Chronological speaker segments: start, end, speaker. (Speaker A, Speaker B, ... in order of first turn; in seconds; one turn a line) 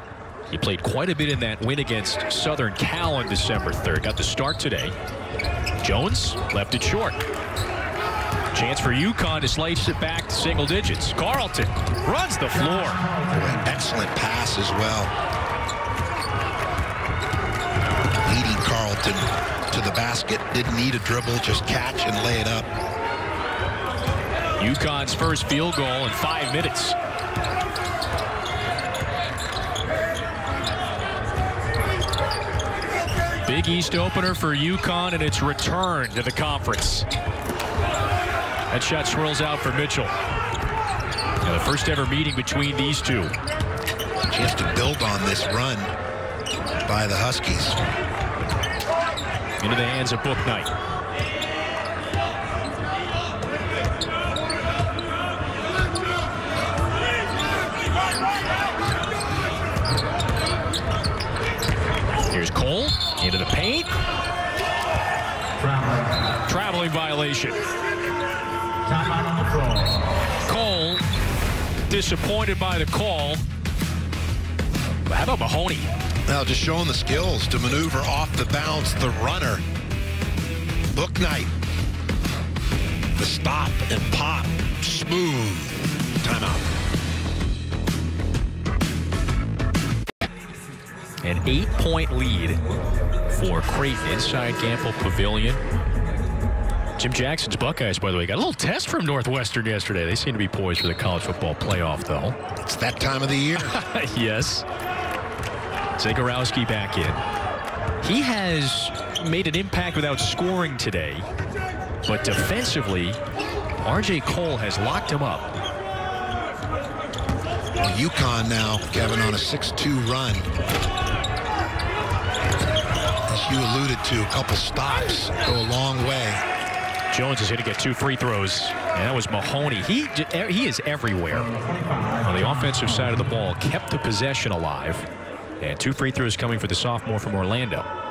Speaker A: 0.5-5.0
Speaker A: 5.8-7.2
Speaker A: 8.5-13.1
Speaker B: 12.7-13.7
Speaker C: 13.3-15.1
Speaker C: 18.2-22.7
Speaker A: 24.6-26.9
Speaker A: 33.4-37.0
Speaker A: 38.7-40.1
Speaker A: 41.4-43.4
Speaker C: 44.3-45.9
Speaker C: 46.8-47.8
Speaker A: 49.6-50.7
Speaker A: 62.3-63.9
Speaker B: 65.6-66.3
Speaker A: 66.5-67.6
Speaker B: 68.8-70.0
Speaker A: 70.5-71.0
Speaker A: 71.9-73.4
Speaker A: 75.1-75.9
Speaker C: 76.2-79.6
Speaker C: 80.9-81.5
Speaker C: 83.2-86.7
Speaker A: 91.2-92.6
Speaker A: 93.3-95.6
Speaker A: 97.0-102.4
Speaker C: 102.5-103.8
Speaker A: 103.6-104.7
Speaker A: 106.0-107.2
Speaker A: 108.0-111.3
Speaker A: 112.0-113.2
Speaker A: 113.8-115.5
Speaker C: 117.8-120.5
Speaker C: 123.3-126.4
Speaker A: 127.1-131.5
Speaker B: 131.3-133.5
Speaker A: 132.2-135.1
Speaker A: 135.6-137.9